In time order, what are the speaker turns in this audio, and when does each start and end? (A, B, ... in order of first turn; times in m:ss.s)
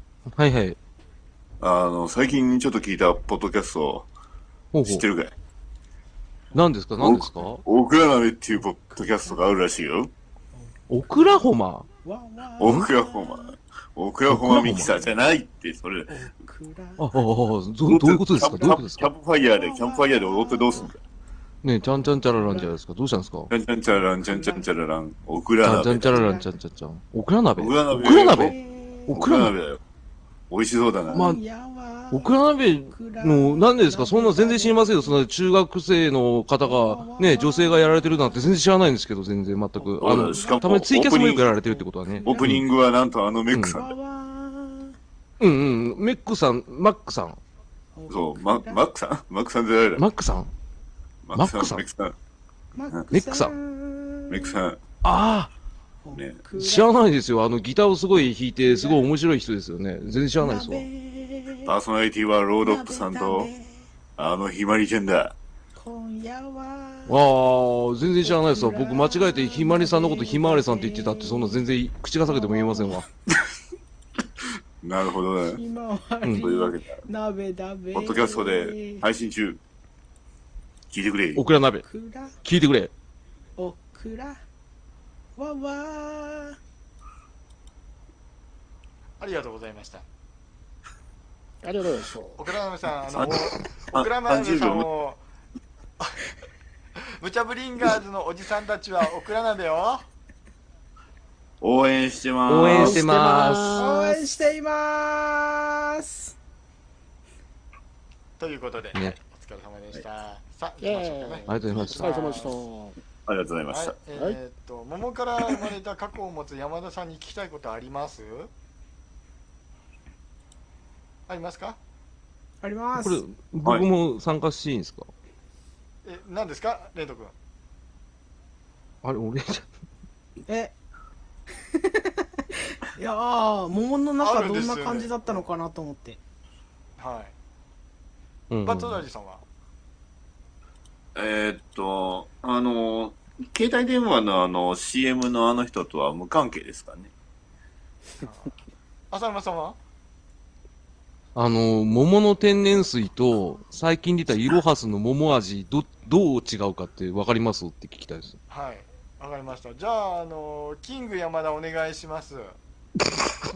0:00.3-0:00.8 A
0:01.6-0:04.1 B
0:04.7-0:05.1 A
0:04.8-0:05.3 B
0:06.5-0:07.6 A
0:07.0-0:10.1 B
0:08.9-0:09.4 C
0:10.5-0:11.5 C
0:10.9-0:11.9 A
0:12.0-0:13.6 C
0:12.6-0:16.2 B
0:12.6-0:12.9 A
0:14.3-0:14.9 A
0:14.9-0:15.1 C
0:16.1-0:17.1 C
0:17.0-0:19.1 A
0:17.9-0:20.9 B
0:19.4-0:20.9 C
0:21.6-0:23.5 A
0:21.8-0:22.8 C
0:23.5-0:26.4 B
0:23.9-0:24.7 C
0:25.6-0:28.6 A
0:26.0-0:26.5 C
0:27.6-0:29.8 B
0:28.2-0:29.2 C
0:29.1-0:29.5 A
0:30.5-0:31.2 B
0:31.1-0:35.2 C
0:31.1-0:31.4 A
0:32.1-0:42.6 A
0:36.6-0:38.6 C
0:39.8-0:40.8 C
0:40.0-0:41.5 B
0:41.3-0:42.5 C
0:42.2-0:43.9 B
0:43.5-0:43.8 A
0:43.7-0:45.0 C
0:45.4-0:47.4 A
0:48.0-0:48.8 C
0:48.1-0:50.0 B
0:50.0-0:50.5 A
0:51.2-0:52.2 B
0:51.4-0:51.8 A
0:52.8-0:54.6 C
0:53.1-0:53.5 A
0:54.3-0:54.8 B
0:55.0-0:55.5 A
0:56.0-0:56.9 C
0:56.6-1:00.9 A
0:58.6-0:59.1 C
1:00.4-1:01.8 C
1:01.7-1:03.5 B
1:02.6-1:03.9 C
1:04.2-1:05.4 B
1:05.8-1:07.2 C
1:07.1-1:13.0 A
1:08.2-1:11.6 C
1:12.2-1:13.1 C
1:14.8-1:15.6 B
1:15.5-1:19.0 C
1:16.3-1:17.0 B
1:17.9-1:19.6 B
1:20.9-1:21.4 B
1:21.4-1:21.8 A
1:21.8-1:22.4 C
1:22.4-1:22.9 A
1:23.6-1:24.4 C
1:25.4-1:26.6 C
1:29.2-1:30.0 D
1:31.6-1:32.4 E
1:32.4-1:35.2 D
1:33.1-1:34.9 B
1:37.2-1:40.1 D
1:41.6-1:43.0 B
1:42.5-1:43.9 A
1:42.6-1:44.3 E
1:43.8-1:46.4 C
1:48.4-1:52.6 D
1:50.8-1:53.0 E
1:51.5-1:52.1 A
1:53.3-1:54.0 B
1:53.7-1:58.5 D
2:01.3-2:01.8 D
2:02.6-2:03.2 C
2:03.0-2:05.1 A
2:06.0-2:07.3 D
2:09.0-2:09.7 A
2:10.5-2:10.7 C
2:11.7-2:16.2 C
2:14.2-2:15.5 D
2:17.0-2:17.3 D
2:18.5-2:19.0 A
2:18.6-2:19.4 D
2:21.2-2:27.1 B
2:28.2-2:28.6 D
2:29.1-2:29.8 D
2:31.4-2:38.4 A
2:38.5-2:42.6 D